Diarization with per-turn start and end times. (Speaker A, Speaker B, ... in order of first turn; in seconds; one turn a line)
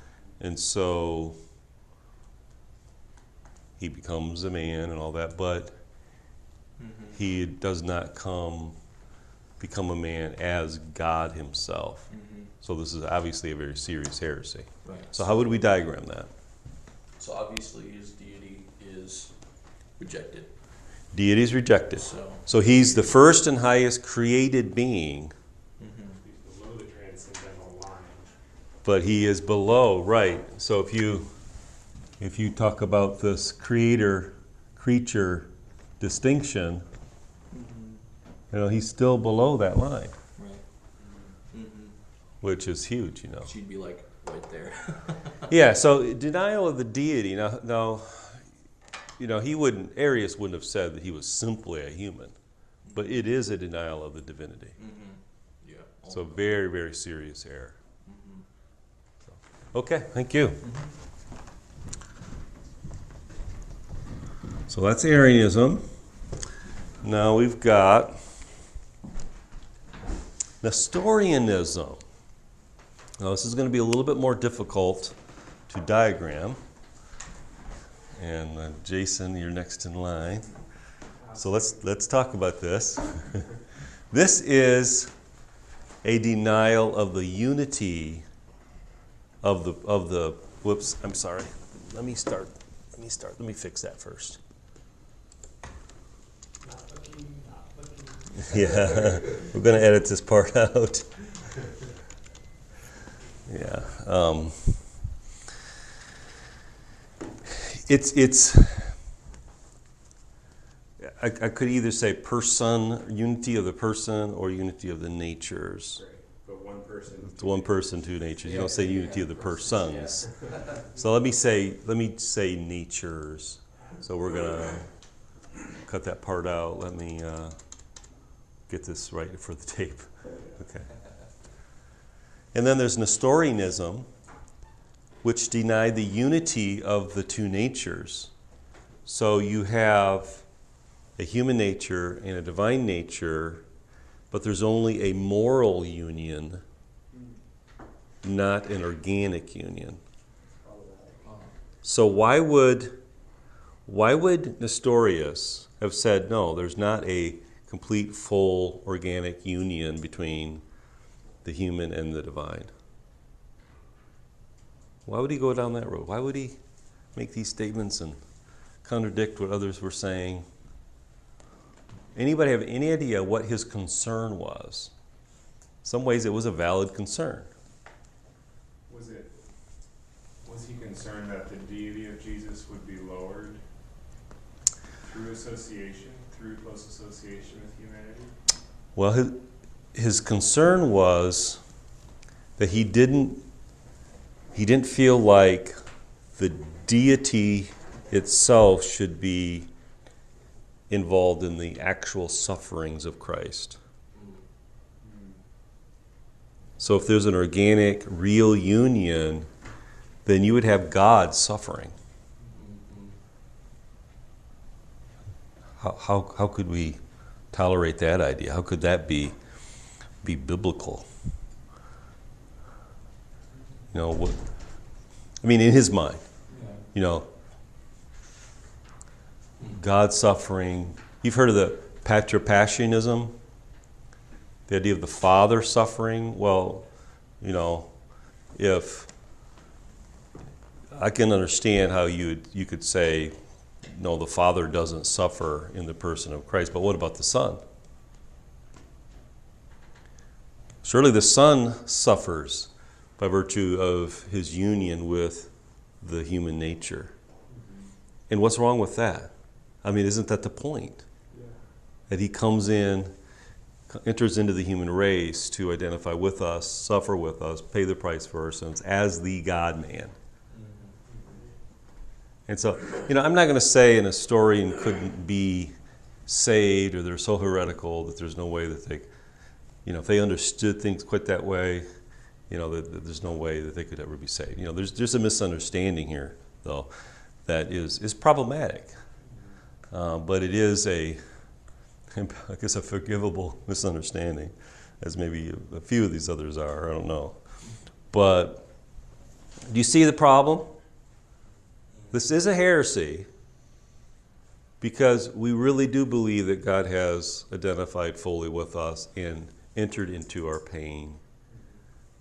Speaker A: 0.4-1.4
Speaker A: 3.8-5.8
Speaker B: 6.8-7.2
Speaker A: 7.1-8.8
Speaker A: 9.6-12.1
Speaker B: 12.1-12.5
Speaker A: 12.6-16.3
Speaker B: 14.8-15.1
Speaker B: 17.2-19.4
Speaker B: 20.0-20.5
Speaker A: 21.1-25.3
Speaker B: 21.9-23.0
Speaker B: 25.8-26.2
Speaker C: 26.2-28.3
Speaker A: 28.9-31.3
Speaker A: 32.2-36.9
Speaker B: 37.6-37.9
Speaker A: 38.5-40.1
Speaker B: 40.4-40.6
Speaker C: 41.0-41.3
Speaker B: 41.5-41.9
Speaker A: 42.4-43.5
Speaker B: 43.5-45.5
Speaker A: 45.5-48.4
Speaker A: 49.2-52.4
Speaker A: 52.9-54.8
Speaker B: 54.8-56.5
Speaker A: 56.1-57.8
Speaker B: 58.0-58.4
Speaker A: 59.7-60.6
Speaker B: 60.6-60.9
Speaker A: 64.7-65.9
Speaker A: 67.0-68.2
Speaker A: 70.6-72.0
Speaker A: 73.2-75.2
Speaker A: 75.7-76.6
Speaker A: 78.2-80.5
Speaker C: 81.2-81.8
Speaker A: 81.3-83.5
Speaker A: 84.1-85.1
Speaker A: 86.0-88.2
Speaker A: 89.4-94.4
Speaker C: 96.6-99.3
Speaker A: 98.4-101.1
Speaker A: 103.5-104.8
Speaker A: 107.5-109.0
Speaker A: 111.0-116.0
Speaker C: 116.0-117.7
Speaker A: 117.2-124.9
Speaker B: 118.4-120.8
Speaker A: 125.8-127.6
Speaker A: 128.7-130.9
Speaker A: 132.5-134.1
Speaker A: 135.2-138.3
Speaker A: 139.1-140.4
Speaker A: 141.2-143.7
Speaker A: 144.3-146.6
Speaker C: 147.1-147.4
Speaker A: 148.2-150.0
Speaker C: 150.6-151.2
Speaker B: 151.2-151.5
Speaker A: 151.8-153.0
Speaker A: 153.9-160.6
Speaker A: 161.4-162.7
Speaker A: 165.1-166.6
Speaker A: 167.1-168.2
Speaker A: 168.8-170.5
Speaker A: 172.2-174.9
Speaker A: 175.8-177.5
Speaker C: 178.9-179.3
Speaker C: 180.4-183.6
Speaker C: 185.0-188.3
Speaker A: 188.9-191.6
Speaker A: 192.6-193.4
Speaker A: 194.5-195.8
Speaker A: 196.4-199.7
Speaker A: 200.9-203.8
Speaker B: 204.2-204.4
Speaker C: 205.0-205.4
Speaker A: 206.8-209.5
Speaker A: 210.2-211.9
Speaker B: 212.4-213.2
Speaker A: 215.8-217.0
Speaker A: 217.5-219.4
Speaker A: 220.2-221.1
Speaker A: 223.9-224.4
Speaker A: 225.4-226.2
Speaker B: 226.5-226.8
Speaker A: 226.9-227.3
Speaker A: 229.7-233.4
Speaker A: 234.7-236.9
Speaker A: 237.4-237.9
Speaker A: 238.6-239.1
Speaker A: 240.9-247.6
Speaker A: 250.8-257.1
Speaker C: 257.5-257.9
Speaker A: 258.3-259.3
Speaker A: 259.8-261.1
Speaker C: 261.3-261.6
Speaker A: 262.1-263.1
Speaker A: 263.9-270.1
Speaker B: 270.5-270.9
Speaker C: 271.1-271.5
Speaker A: 272.5-275.7
Speaker A: 276.3-279.1
Speaker A: 279.9-281.9
Speaker A: 282.5-286.9
Speaker A: 287.4-288.9
Speaker C: 289.3-289.6
Speaker A: 289.9-291.2
Speaker A: 292.1-297.4
Speaker A: 298.1-298.7
Speaker A: 299.7-300.7
Speaker A: 302.1-303.3
Speaker A: 304.8-311.2
Speaker C: 311.5-311.8